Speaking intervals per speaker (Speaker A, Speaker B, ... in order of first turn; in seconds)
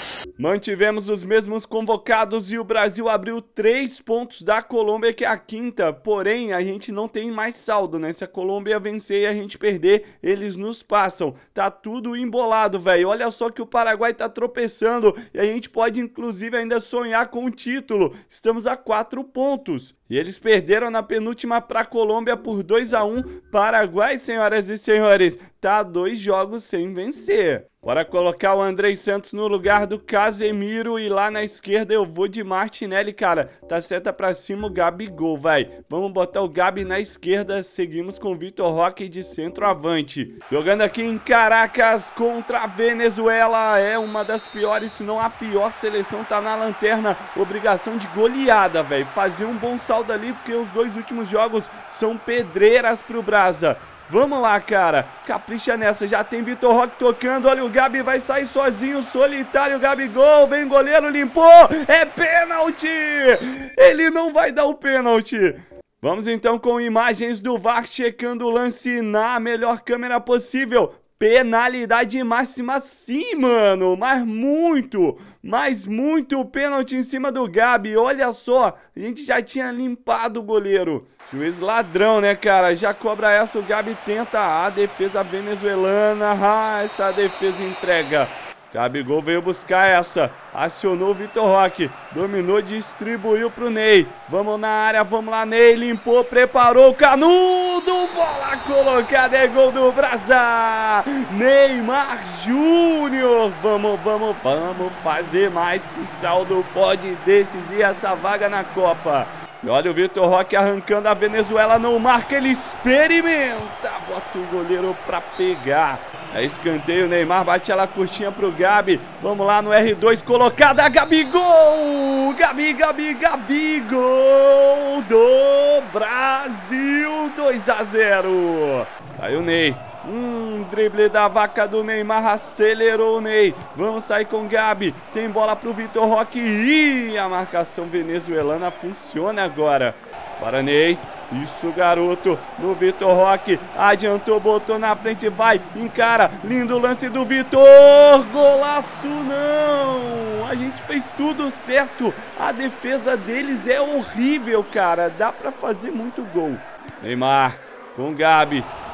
Speaker A: 0.4-158.7